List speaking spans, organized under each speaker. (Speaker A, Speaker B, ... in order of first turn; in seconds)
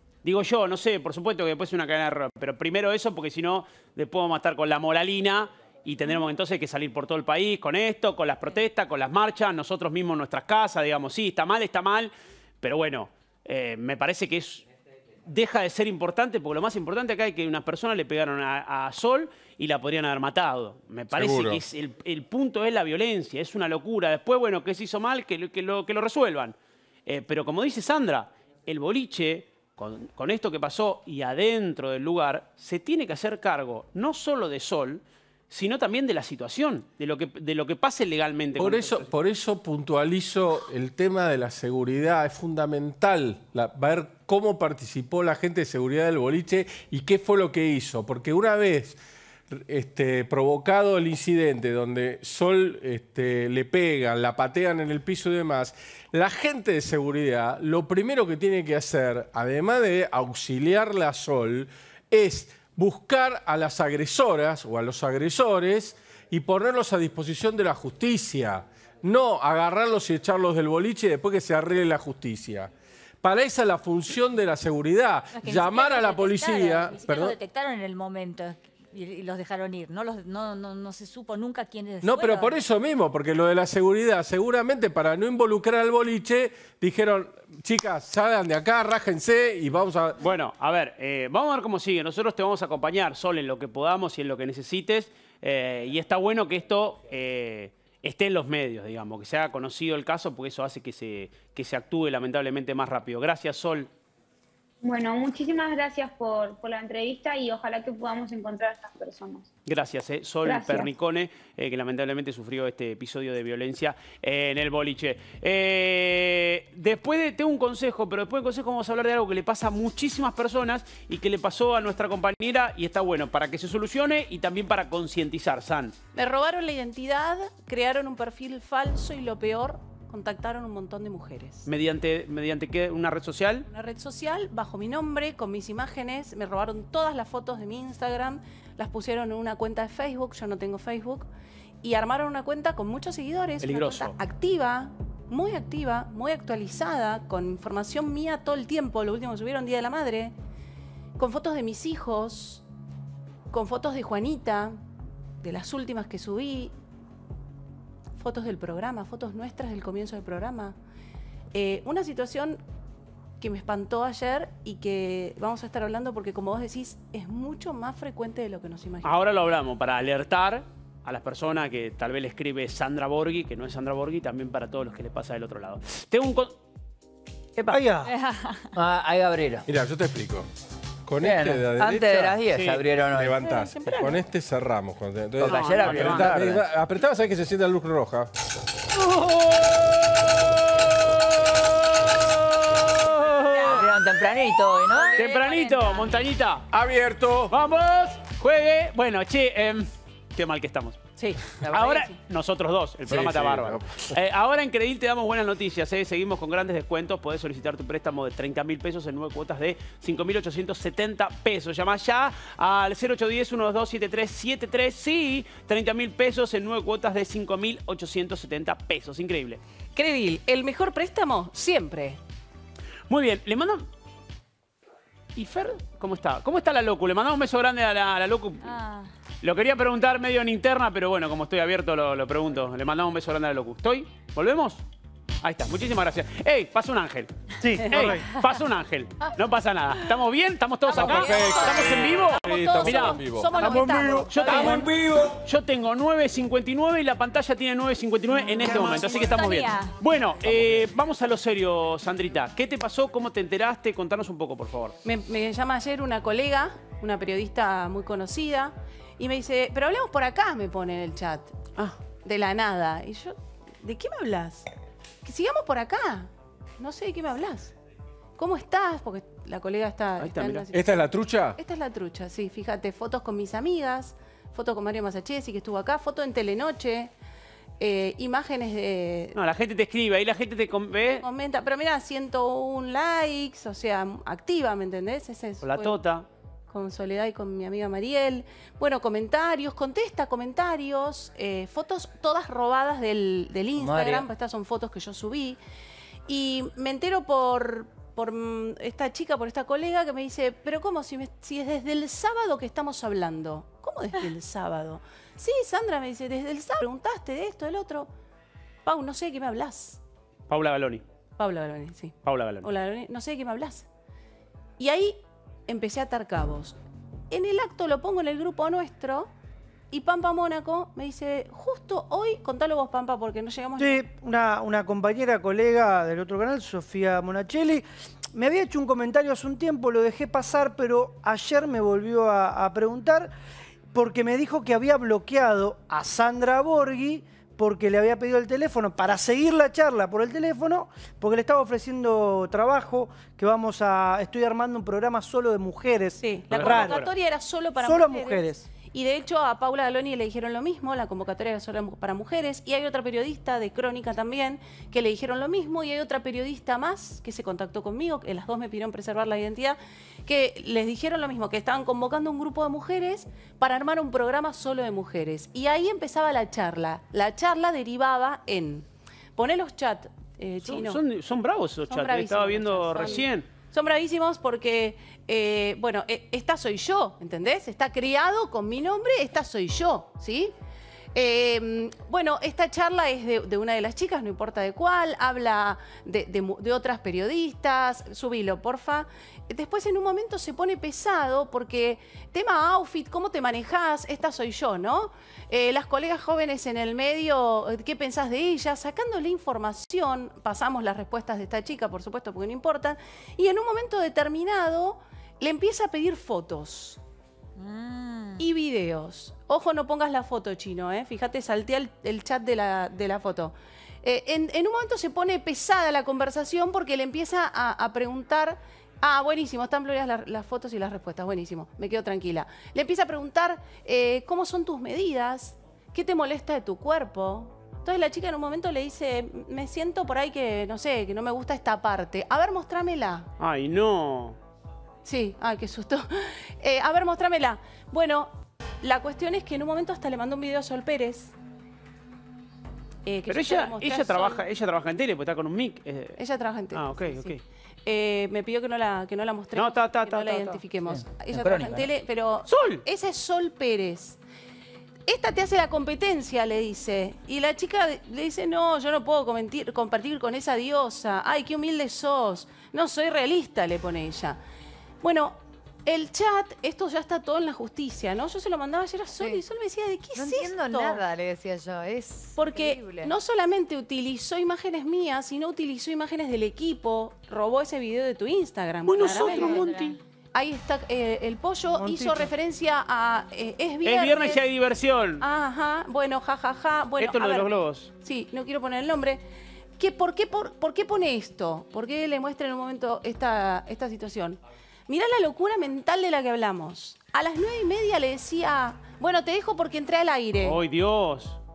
Speaker A: 0.2-14.6, 15.3-26.5, 27.1-39.1, 90.2-103.9, 109.7-125.9, 131.7-133.7, 143.6-144.2, 169.0-176.6, 185.4-186.3, 188.9-193.9, 195.2-196.7, 197.5-201.0, 201.7-219.6, 223.1-223.9, 225.3-228.7, 229.4-234.8, 235.4-237.3, 237.8-254.9, 270.2-270.6, 279.3-281.2, 285.6-286.2, 310.5-311.0, 312.2-312.7, 346.5-347.1, 370.6-373.5, 433.4-434.4, 443.3-446.2, 446.7-447.4, 449.6-450.6, 452.5-452.8, 478.9-480.0, 483.8-485.2, 487.0-487.9, 500.4-501.4
Speaker B: 21.1-21.6, 38.6-49.0, 49.5-72.7, 73.2-77.3, 82.0-90.2, 179.7-180.4, 181.1-188.3, 196.7-197.5, 203.1-204.1, 240.9-243.5, 244.6-245.3, 250.4-250.8, 270.7-271.6
Speaker C: 75.3-82.5, 178.0-178.7, 193.4-196.2, 228.6-229.1, 240.9-241.6, 243.6-244.6, 248.4-250.0, 407.6-408.4, 479.0-480.0
Speaker D: 104.8-109.5, 110.4-110.9
Speaker E: 126.1-131.7, 133.7-141.3, 141.8-150.3, 151.2-152.6, 153.5-154.8, 155.4-156.7, 158.2-160.7, 161.5-162.6, 163.4-169.1, 201.2-202.2, 219.9-222.2, 241.0-244.8, 255.0-261.5, 262.2-264.7, 265.2-267.7, 268.4-277.1, 277.8-279.4, 281.2-286.0, 286.7-295.6, 296.3-308.1, 308.9-310.0, 311.4-313.9, 314.8-316.8, 317.3-319.3, 319.9-324.0, 346.2-371.0, 371.9-380.5, 381.1-407.0, 408.4-433.3, 435.0-441.3, 443.1-444.4, 446.2-454.2, 455.1-464.4, 465.0-471.0, 472.4-479.7, 480.3-484.4, 485.2-489.2, 489.8-500.6
Speaker F: 177.7-178.1, 237.6-238.3, 248.6-249.3, 323.8-333.3, 333.9-347.0, 347.8-348.6, 481.7-482.3
Speaker G: 178.7-179.7, 181.2-183.5, 185.4-186.7, 193.6-195.2, 293.8-294.3, 450.9-451.9
Speaker H: 470.1-473.1